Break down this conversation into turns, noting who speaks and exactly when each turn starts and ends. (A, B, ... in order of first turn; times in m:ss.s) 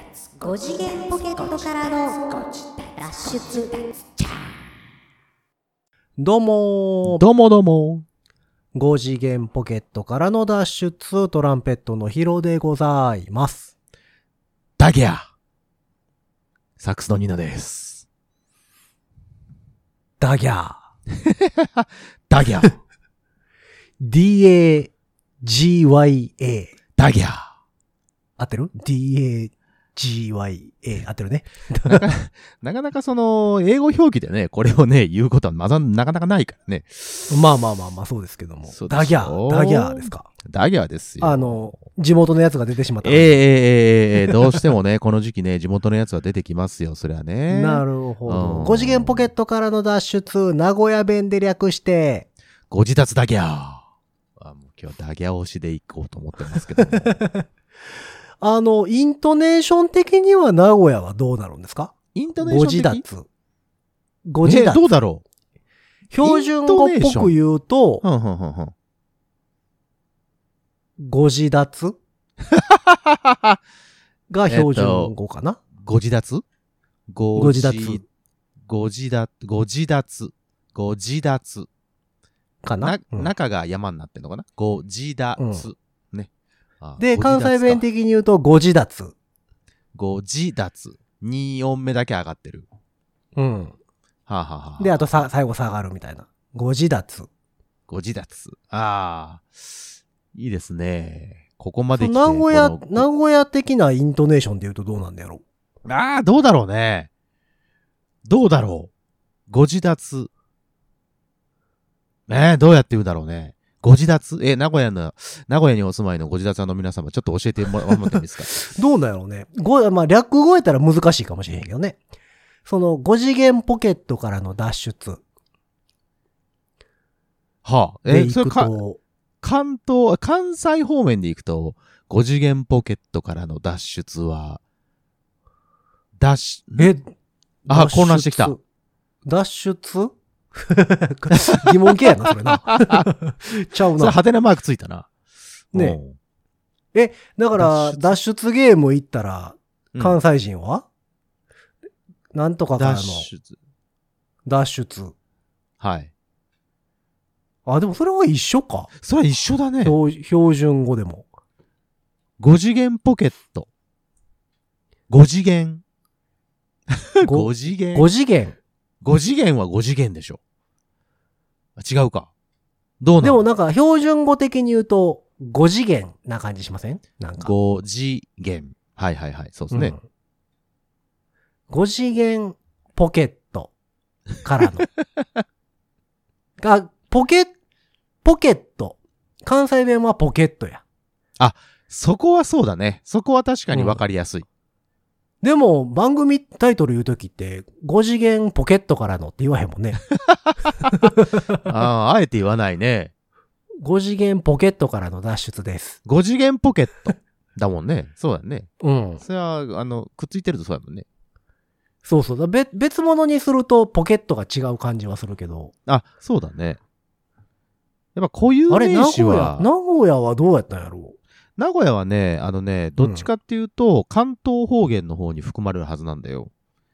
0:00.3-0:04.5 A
0:06.2-0:07.2 B
0:07.1-0:08.1 C
0:08.7-0:13.7 B
0:14.8-0:15.3 C
0:16.8-0:18.1 C
0:20.2-0:20.8 B
0:21.2-0:22.7 C
0:24.0-0:24.9 B
0:25.4-0:26.8 B
0:27.0-0:27.5 C
0:28.4-0:32.0 B
0:31.9-0:37.4 C
0:37.3-0:40.3 B
0:38.7-0:41.7 C
0:41.2-0:43.4 B
0:43.0-0:49.3 C
0:47.5-0:52.3 B
0:52.7-0:53.8 C
0:54.4-0:57.2 C
0:56.9-0:57.5 B
0:58.4-1:03.3 B
1:02.1-1:03.0 C
1:04.3-1:04.8 B
1:04.4-1:05.2 C
1:06.1-1:08.0 B
1:06.2-1:07.3 C
1:08.0-1:08.7 C
1:11.0-1:12.0 B
1:12.5-1:13.6 C
1:14.3-1:15.6 B
1:14.5-1:15.1 C
1:15.8-1:16.4 C
1:17.1-1:18.0 C
1:17.4-1:18.0 B
1:18.7-1:21.7 C
1:22.6-1:23.3 B
1:22.8-1:26.3 C
1:25.4-1:25.7 B
1:26.8-1:27.8 C
1:27.0-1:29.2 B
1:30.0-1:32.7 C
1:33.4-1:33.8 B
1:34.3-1:35.0 C
1:34.8-1:37.3 B
1:37.9-1:43.1 C
1:42.0-1:45.4 B
1:45.8-1:47.1 C
1:48.2-1:48.9 C
1:49.5-1:50.3 C
1:52.3-1:58.5 C
1:58.1-2:02.0 B
2:02.7-2:05.2 B
2:07.6-2:08.7 C
2:08.1-2:09.0 B
2:09.4-2:14.6 C
2:16.2-2:16.9 C
2:16.8-2:17.1 B
2:17.7-2:18.6 B
2:17.7-2:18.5 C
2:19.2-2:24.2 B
2:21.9-2:23.1 C
2:24.0-2:25.1 C
2:25.7-2:26.2 C
2:25.7-2:26.0 B
2:26.9-2:30.9 B
2:27.6-2:28.2 C
2:29.9-2:30.2 C
2:32.3-2:33.3 B
2:32.8-2:33.6 C
2:34.5-2:35.1 B
2:35.8-2:36.1 C
2:37.7-2:38.9 B
2:39.0-2:40.0 C
2:39.8-2:41.3 B
2:42.4-2:43.7 C
2:45.1-2:45.8 C
2:47.0-2:48.1 C
2:47.2-2:48.6 B
2:49.0-2:50.4 C
2:51.8-2:52.3 C
2:53.0-2:53.4 C
2:53.2-2:57.5 B
2:57.4-3:00.0 C
2:59.7-3:00.0 B
3:01.7-3:03.7 B
3:04.4-3:04.9 B
3:06.6-3:07.5 B
3:08.2-3:10.8 B
3:11.4-3:14.5 C
3:13.7-3:14.0 B
3:15.4-3:20.0 B
3:20.3-3:21.1 C
3:20.9-3:21.6 B
3:21.6-3:23.1 C
3:23.8-3:26.0 B
3:26.0-3:31.1 C
3:28.8-3:29.2 B
3:32.0-3:35.7 B
3:35.9-3:36.8 C
3:38.2-3:39.7 C
3:38.7-3:41.2 B
3:41.6-3:46.5 C
3:43.0-3:43.3 B